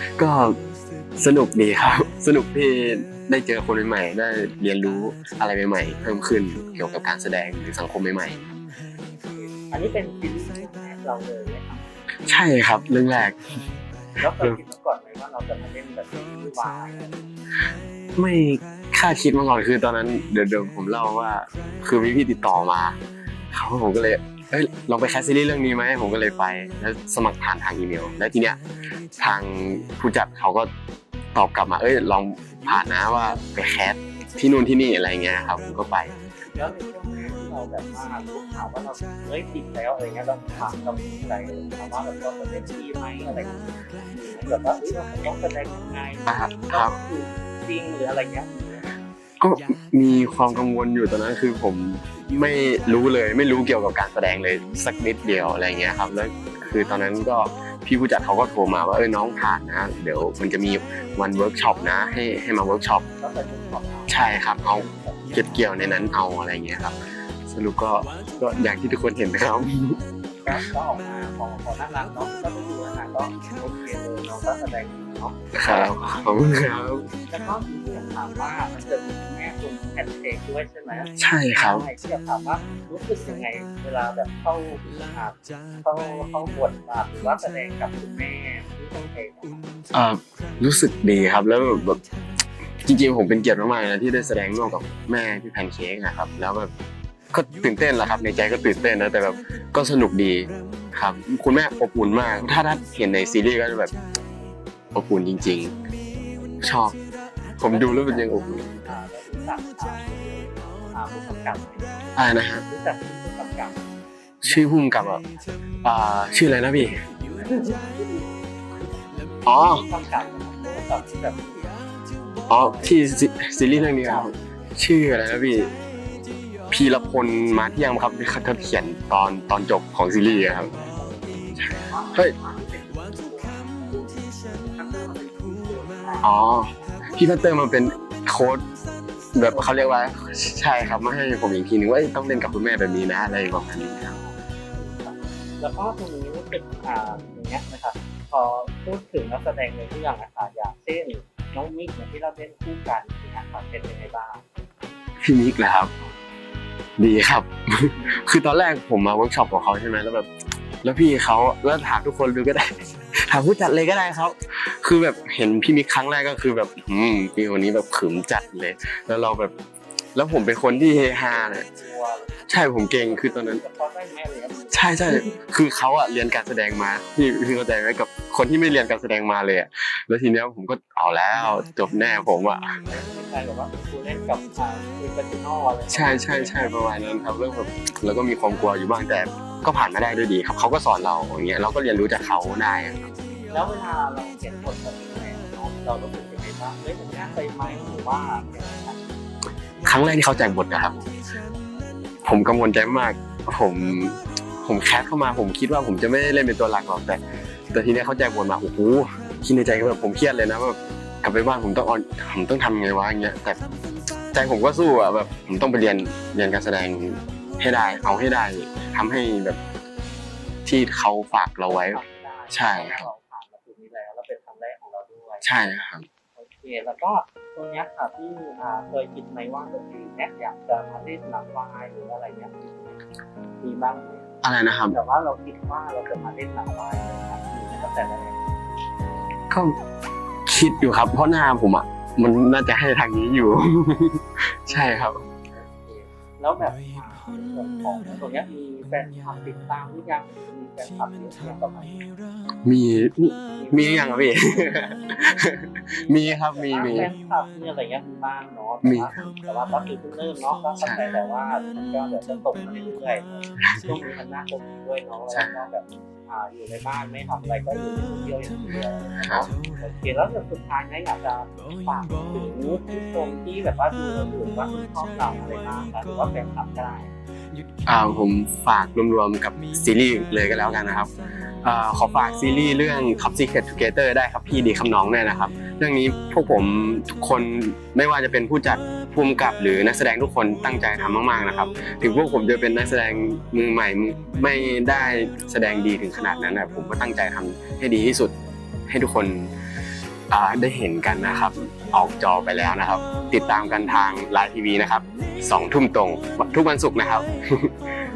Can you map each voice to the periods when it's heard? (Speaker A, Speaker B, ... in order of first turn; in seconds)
Speaker A: 0.2-0.6, 1.2-8.4, 12.3-13.4, 18.2-23.0, 23.5-28.6, 29.2-30.7, 31.4-36.1, 46.3-47.0, 49.4-63.0, 64.1-67.0, 67.5-70.0, 75.5-77.1, 81.2-81.9, 89.9-92.0, 92.8-96.7, 97.3-103.9, 104.9-105.7, 106.6-107.0, 107.6-108.8, 112.2-112.7, 114.4-115.2, 115.8-117.0, 119.5-119.8, 122.5-125.7, 126.7-130.7, 131.6-132.3, 136.2-138.6, 139.3-144.2, 155.2-155.9, 157.0-160.3, 160.8-169.5, 170.2-171.7, 172.5-173.6, 174.7-182.8, 185.9-193.1, 199.8-201.0, 202.2-207.2, 207.7-213.6, 214.3-219.6, 220.7-222.0, 222.5-223.0, 225.4-226.1, 234.4-235.0, 239.5-239.8, 240.5-245.2, 252.7-257.1, 258.8-259.3, 263.6-263.9, 269.2-269.5, 277.9-281.1, 281.6-298.3, 298.9-299.5, 300.3-307.7
Speaker B: 9.1-11.8, 14.2-17.2, 36.5-48.9, 63.2-65.7, 70.4-76.1, 77.3-89.6, 106.1-106.6, 107.7-113.8, 117.0-118.3, 119.5-121.7, 123.8-124.3, 130.2-137.1, 139.5-140.0, 144.1-154.4, 158.0-158.2, 170.6-171.1, 171.6-175.3, 182.9-186.7, 193.5-199.0, 200.8-201.1, 221.7-225.5, 226.4-233.0, 233.6-238.4, 244.7-252.1, 253.6-253.9, 255.9-277.1